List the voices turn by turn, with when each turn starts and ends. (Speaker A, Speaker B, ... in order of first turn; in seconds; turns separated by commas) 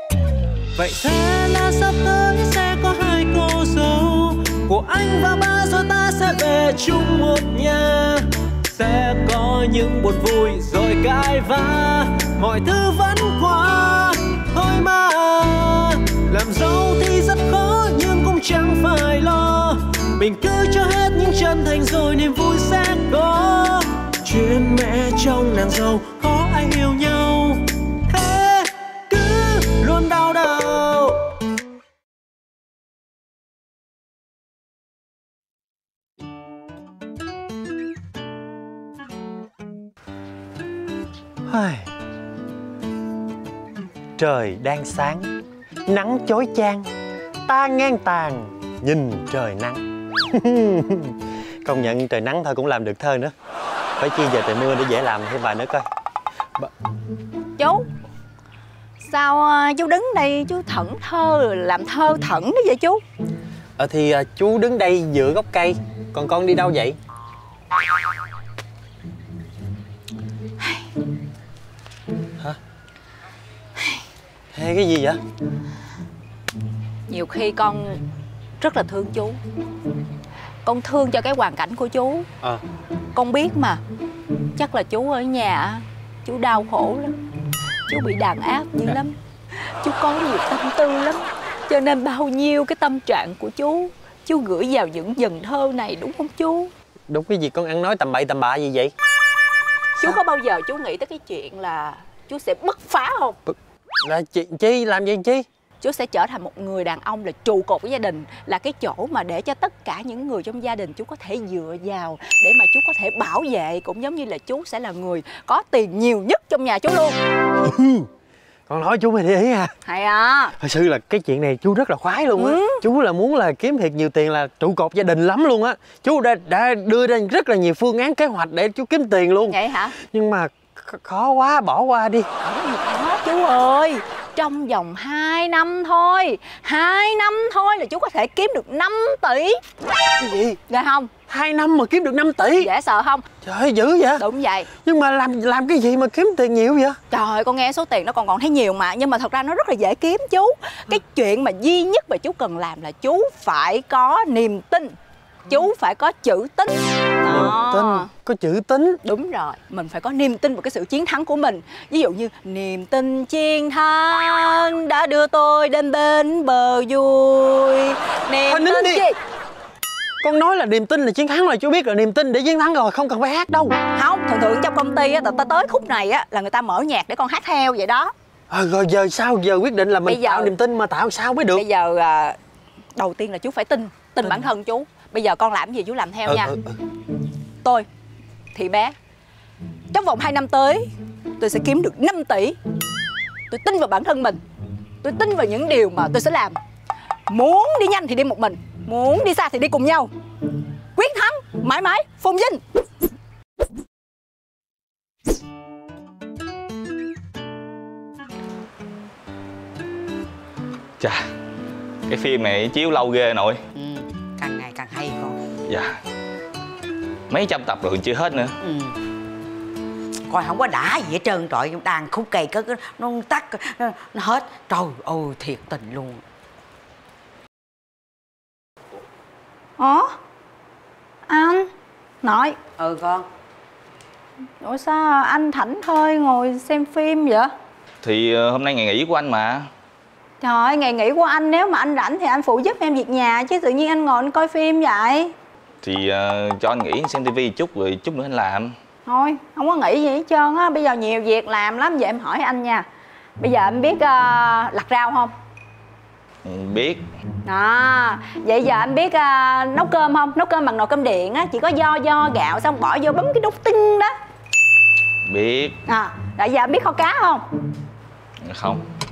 Speaker A: 0.8-31.2, Speaker B: 41.5-41.9, Speaker B: 44.2-45.3, Speaker B: 45.9-46.9, Speaker B: 47.5-53.3, Speaker B: 54.0-55.9, Speaker C: 57.6-57.9, Speaker C: 59.0-63.0, Speaker B: 63.8-67.0, Speaker B: 74.5-75.2, Speaker C: 77.1-78.0, Speaker C: 78.6-79.4, Speaker C: 80.7-82.3, Speaker C: 83.1-83.8, Speaker C: 84.6-87.2, Speaker C: 87.9-96.7, Speaker B: 97.1-98.9, Speaker C: 100.0-103.4, Speaker B: 103.5-105.5, Speaker C: 105.8-117.2, Speaker B: 117.6-118.1, Speaker B: 118.7-119.7, Speaker C: 119.8-120.5, Speaker B: 120.6-132.3, Speaker C: 122.3-122.8, Speaker C: 129.5-130.0, Speaker C: 132.4-139.6, Speaker B: 140.2-140.6, Speaker C: 140.7-141.1, Speaker B: 141.3-142.7, Speaker C: 142.6-143.2, Speaker B: 143.4-144.2, Speaker C: 144.2-144.7, Speaker B: 144.8-147.0, Speaker C: 147.1-155.0, Speaker C: 155.5-158.1, Speaker B: 157.3-159.0, Speaker C: 159.0-169.2, Speaker B: 168.5-169.0, Speaker B: 170.2-173.8, Speaker C: 173.8-178.1, Speaker B: 178.5-181.6, Speaker C: 180.1-180.5, Speaker C: 181.5-182.4, Speaker C: 183.0-186.5, Speaker B: 186.3-186.8, Speaker C: 188.5-188.9, Speaker C: 189.9-192.6, Speaker C: 193.5-194.4, Speaker C: 195.0-196.6, Speaker C: 197.3-200.1, Speaker C: 200.9-202.6, Speaker D: 212.1-213.6, Speaker E: 213.7-215.4, Speaker D: 215.7-216.0, Speaker D: 217.3-218.6, Speaker E: 218.6-219.0, Speaker E: 220.3-226.2, Speaker C: 229.8-230.2, Speaker C: 231.3-231.7, Speaker C: 232.2-232.6, Speaker E: 232.8-233.3, Speaker C: 234.6-237.5, Speaker D: 238.0-239.7, Speaker C: 240.4-245.3, Speaker D: 245.8-248.7, Speaker C: 249.1-252.8, Speaker C: 253.4-255.3, Speaker D: 256.4-257.0, Speaker C: 257.4-264.1, Speaker D: 265.3-265.8, Speaker C: 265.9-267.4, Speaker D: 268.4-268.8